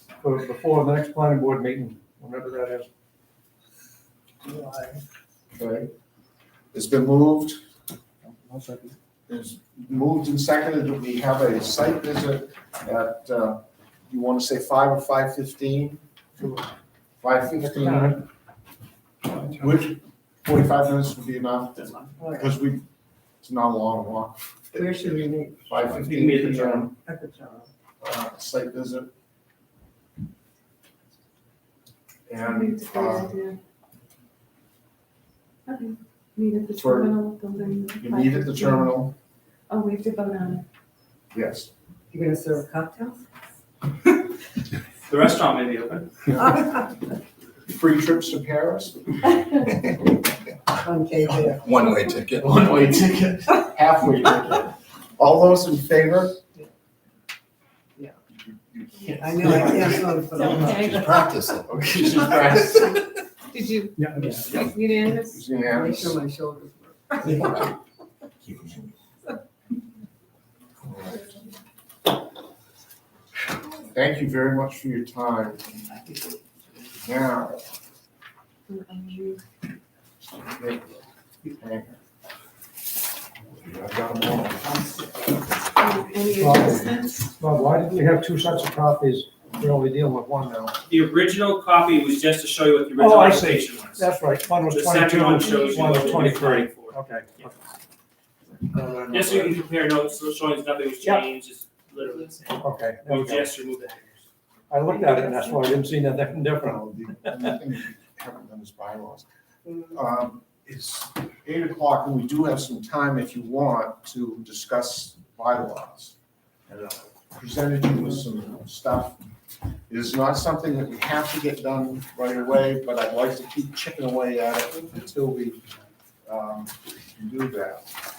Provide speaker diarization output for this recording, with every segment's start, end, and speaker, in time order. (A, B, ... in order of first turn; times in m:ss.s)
0:00.2-0:02.9 A
0:04.5-0:05.0 B
0:05.6-0:05.9 C
0:06.7-0:07.6 C
0:08.5-0:08.8 A
0:09.3-0:16.0 C
0:17.2-0:18.3 C
0:17.7-0:18.2 A
0:19.3-0:22.8 C
0:22.2-0:22.6 B
0:23.4-0:25.0 C
0:24.8-0:25.7 B
0:25.7-0:26.9 C
0:26.0-0:26.9 D
0:26.9-0:27.7 B
0:28.0-0:29.1 C
0:32.3-0:33.4 C
0:32.4-0:33.6 E
0:35.7-0:38.9 E
0:36.8-0:37.2 C
0:38.0-0:39.2 C
0:39.7-0:40.6 E
0:41.3-0:41.7 C
0:42.1-0:43.2 B
0:45.1-0:46.1 D
0:47.7-0:49.0 C
0:50.8-0:51.8 B
0:51.6-0:52.8 F
0:52.4-0:56.4 C
0:58.4-1:00.3 C
0:59.2-1:01.2 B
0:59.4-0:59.9 F
1:00.3-1:01.4 E
1:00.4-1:01.6 F
1:01.5-1:03.2 C
1:03.5-1:05.4 E
1:04.0-1:04.6 A
1:04.2-1:06.2 C
1:05.6-1:07.7 B
1:07.3-1:07.7 C
1:10.9-1:11.2 C
1:13.8-1:15.7 C
1:17.0-1:17.6 C
1:18.7-1:19.4 E
1:20.5-1:21.0 C
1:21.6-1:22.0 C
1:23.5-1:24.7 C
1:24.7-1:25.0 B
1:25.8-1:27.3 E
1:26.3-1:30.8 A
1:30.9-1:34.0 D
1:33.0-1:37.6 A
1:34.8-1:37.0 D
1:35.3-1:36.3 E
1:38.6-1:39.6 A
1:39.1-1:44.2 D
1:42.6-1:43.5 A
1:44.7-1:46.8 A
1:46.6-1:49.3 C
1:49.9-1:56.2 C
1:56.7-1:59.2 C
1:59.9-2:05.6 C
2:06.3-2:07.9 C